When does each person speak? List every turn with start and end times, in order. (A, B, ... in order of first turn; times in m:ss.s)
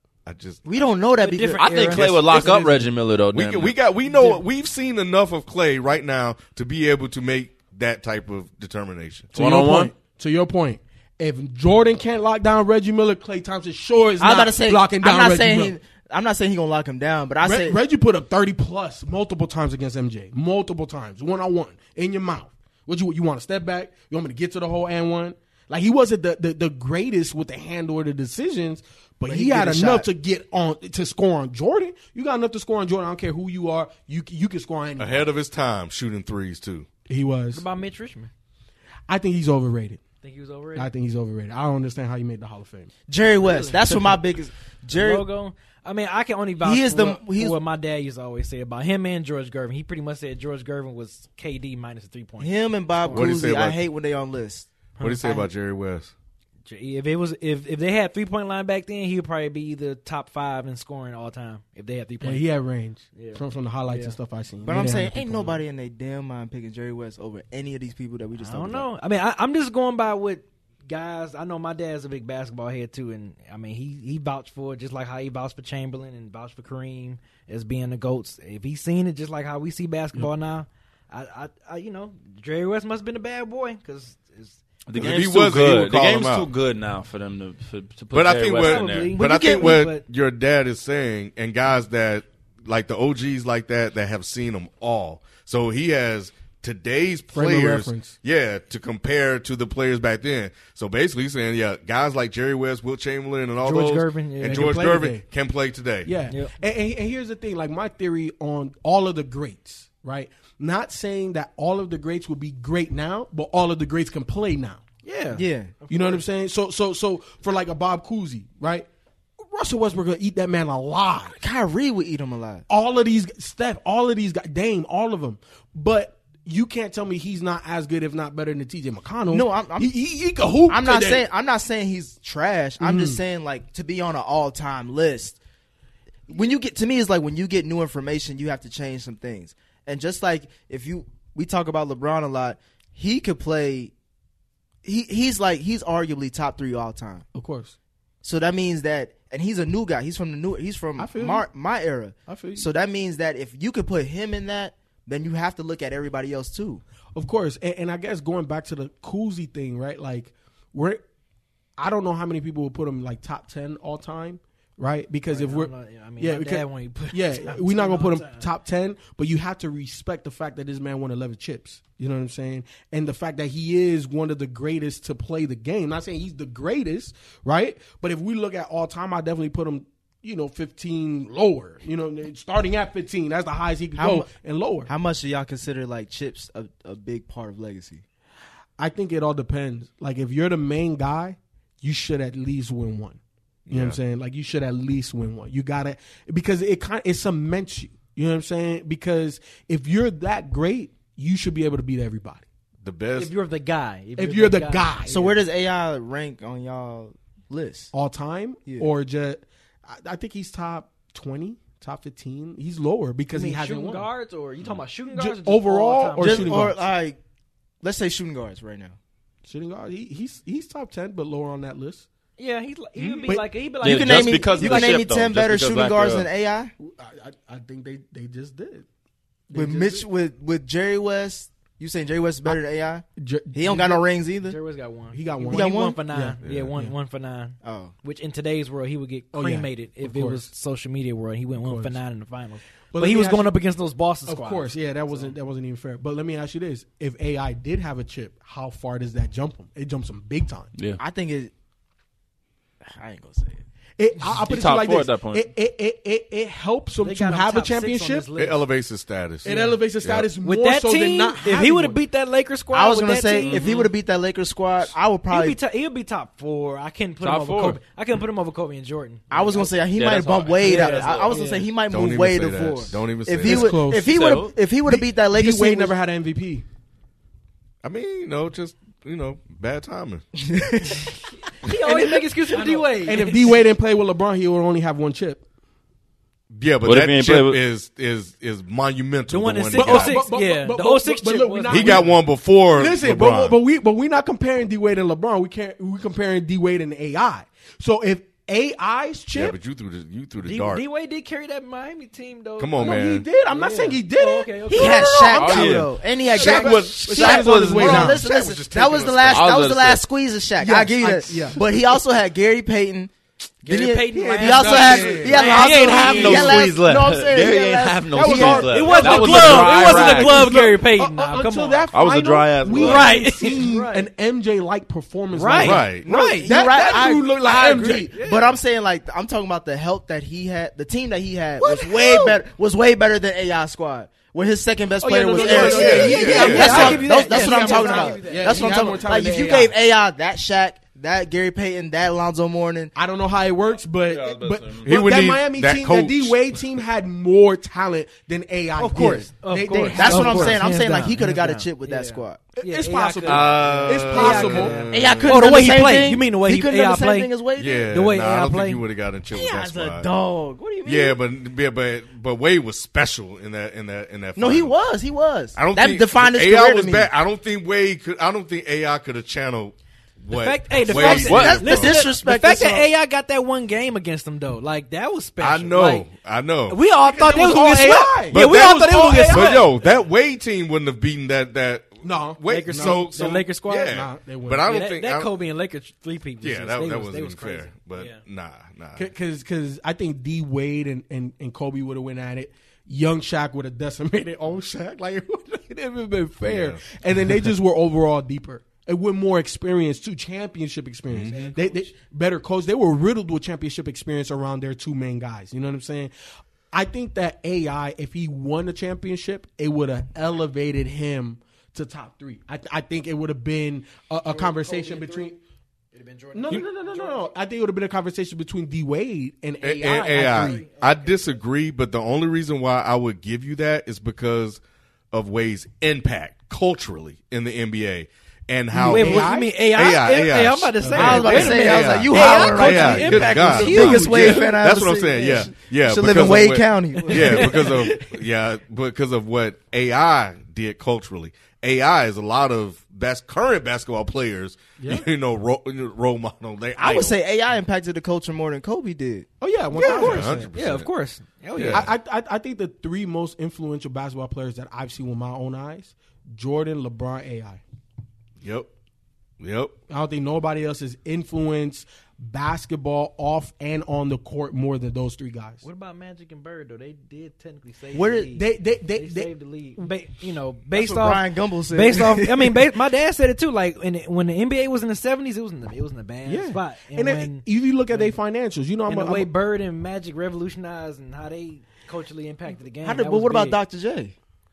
0:00.2-0:00.6 A
0:00.6-0:02.0 B
0:01.2-0:02.6 C
0:01.5-0:03.8 D
0:02.3-0:02.8 E
0:03.3-0:09.3 A
0:04.1-0:04.4 C
0:09.3-0:15.8 E
0:09.3-0:09.9 D
0:14.2-0:17.8 B
0:17.4-0:35.3 E
0:29.3-0:30.1 B
0:35.0-0:36.9 A
0:37.1-0:37.6 E
0:37.5-0:38.3 C
0:39.1-0:40.0 E
0:40.2-0:40.9 C
0:40.7-0:42.9 E
0:43.1-0:45.2 B
0:43.4-0:43.9 C
0:44.9-0:52.5 C
0:46.6-0:47.6 B
0:52.4-0:54.7 B
0:53.0-0:53.3 C
0:53.1-0:53.8 A
0:55.0-0:55.4 C
0:55.0-0:56.1 A
0:56.6-1:02.4 C
1:02.2-1:05.6 E
1:03.1-1:04.2 C
1:04.6-1:08.9 B
1:08.4-1:24.6 C
1:24.9-1:29.1 D
1:24.9-1:26.5 A
1:28.1-1:46.1 A
1:28.6-1:30.0 C
1:29.1-1:29.8 B
1:37.3-1:38.2 E
1:43.6-1:45.0 C
1:44.4-1:45.2 E
1:46.0-1:55.0 E
1:46.3-1:46.5 C
1:55.0-1:56.2 C
1:55.3-1:55.8 B
1:55.9-1:58.9 E
1:59.4-2:01.4 E
2:01.3-2:02.6 B
2:02.7-2:11.2 E
2:09.3-2:09.9 B
2:10.7-2:15.4 B
2:12.8-2:13.2 E
2:16.3-2:23.9 B
2:24.8-2:27.2 B
2:27.3-2:27.7 E
2:28.2-2:36.8 B
2:31.0-2:31.4 E
2:32.3-2:32.6 E
2:37.1-2:41.0 E
2:41.8-3:04.9 E
2:45.3-2:48.4 C
3:04.0-3:04.3 B
3:04.9-3:08.0 B
3:08.8-3:13.2 E
3:13.7-3:14.0 A
3:13.7-3:22.4 E
3:22.8-3:23.3 A
3:23.1-3:25.3 C
3:24.2-3:25.3 E
3:25.1-3:27.9 B
3:27.9-3:34.1 E
3:33.3-3:36.7 C
3:35.1-3:36.8 E
3:36.2-3:37.2 B
3:37.8-3:39.0 B
3:39.4-3:42.1 E
3:42.4-3:45.0 C
3:43.0-3:43.3 D
3:43.2-3:43.5 E
3:43.8-3:46.3 D
3:43.8-3:46.7 B
3:46.8-3:48.8 E
3:49.5-3:50.0 E
3:49.5-3:54.6 B
3:53.2-3:54.0 E
3:54.4-4:05.3 C
3:55.1-3:56.9 E
3:55.5-3:56.0 B
3:56.4-3:56.7 A
3:57.6-3:57.9 B
3:59.3-4:00.5 E
4:01.6-4:02.0 E
4:02.9-4:03.5 E
4:04.2-4:10.7 E
4:11.0-4:11.5 B
4:12.9-4:13.6 B
4:14.0-4:18.3 E
4:14.4-4:15.5 D
4:17.0-4:18.7 C
4:18.4-4:20.3 A
4:19.4-4:22.0 E
4:19.4-4:19.8 C
4:20.4-4:23.7 C
4:22.7-4:25.6 B
4:23.4-4:23.9 D
4:25.3-4:29.7 C
4:27.2-4:27.8 D
4:29.3-4:35.9 B
4:29.6-4:31.4 D
4:30.6-4:31.7 C
4:31.9-4:33.8 A
4:33.4-4:34.1 E
4:33.9-4:34.5 D
4:34.8-4:36.6 E
4:37.8-4:40.3 A
4:40.4-4:41.1 B
4:41.6-4:43.6 C
4:41.8-4:45.4 E
4:46.5-4:50.2 A
4:46.8-4:47.6 D
4:49.3-4:52.1 C
4:49.7-4:59.6 E
4:51.7-4:53.6 A
4:59.3-5:00.8 A
5:00.4-5:05.4 C
5:02.6-5:03.2 A
5:02.8-5:08.2 E
5:04.7-5:13.1 B
5:05.3-5:05.9 D
5:06.3-5:09.5 A
5:06.6-5:08.1 D
5:09.3-5:10.0 D
5:10.6-5:11.6 E
5:13.6-5:18.8 B
5:13.6-5:16.7 C
5:14.1-5:16.7 E
5:15.4-5:20.6 D
5:18.1-5:28.2 E
5:18.4-5:21.9 C
5:21.9-5:23.3 D
5:22.6-5:24.1 C
5:25.3-5:27.0 C
5:25.5-5:26.1 A
5:26.4-5:42.9 B
5:27.5-5:28.5 C
5:31.7-5:32.2 C
5:31.9-5:32.3 E
5:35.0-5:39.7 E
5:35.4-5:37.1 A
5:35.5-5:39.1 C
5:42.9-5:50.6 E
5:44.1-5:44.9 D
5:44.8-5:46.4 A
5:48.8-5:58.8 C
5:49.7-5:52.4 B
5:52.6-5:54.9 E
5:53.2-5:55.6 A
5:54.9-5:57.9 B
5:57.6-6:00.1 A
5:59.3-6:01.2 B
6:00.8-6:04.7 A
6:04.4-6:07.1 B
6:05.5-6:12.0 A
6:10.3-6:16.1 C
6:10.9-6:12.9 B
6:11.1-6:11.6 D
6:15.4-6:16.8 A
6:16.7-6:19.7 C
6:17.0-6:19.7 E
6:18.3-6:25.3 A
6:22.0-6:23.2 E
6:22.4-6:24.0 C
6:23.8-6:24.7 E
6:24.6-6:28.2 C
6:26.4-6:29.1 A
6:28.9-6:46.1 E
6:36.4-6:36.8 A
6:41.1-6:41.5 A
6:41.3-6:41.8 C
6:46.7-6:55.4 E
6:54.3-6:55.4 C
6:55.9-6:57.3 C
6:56.3-7:00.6 E
6:59.6-7:04.6 A
7:00.1-7:01.3 C
7:05.1-7:27.2 A
7:08.7-7:09.5 E
7:08.9-7:14.6 C
7:10.8-7:11.5 E
7:10.9-7:17.9 B
7:13.5-7:14.1 E
7:17.0-7:18.0 C
7:24.8-7:25.1 E
7:26.8-7:29.3 B
7:29.4-7:30.5 E
7:29.8-7:31.9 C
7:29.8-7:30.9 A
7:31.5-7:31.9 A
7:31.7-7:37.6 E
7:38.4-7:38.7 A
7:39.4-7:39.7 A
7:39.9-7:45.6 E
7:45.6-7:48.4 C
7:48.0-7:48.3 B
7:48.1-7:49.9 E
7:49.0-7:58.2 C
7:50.7-7:52.6 B
7:56.2-7:59.3 E
7:58.9-8:03.6 C
8:02.8-8:04.1 B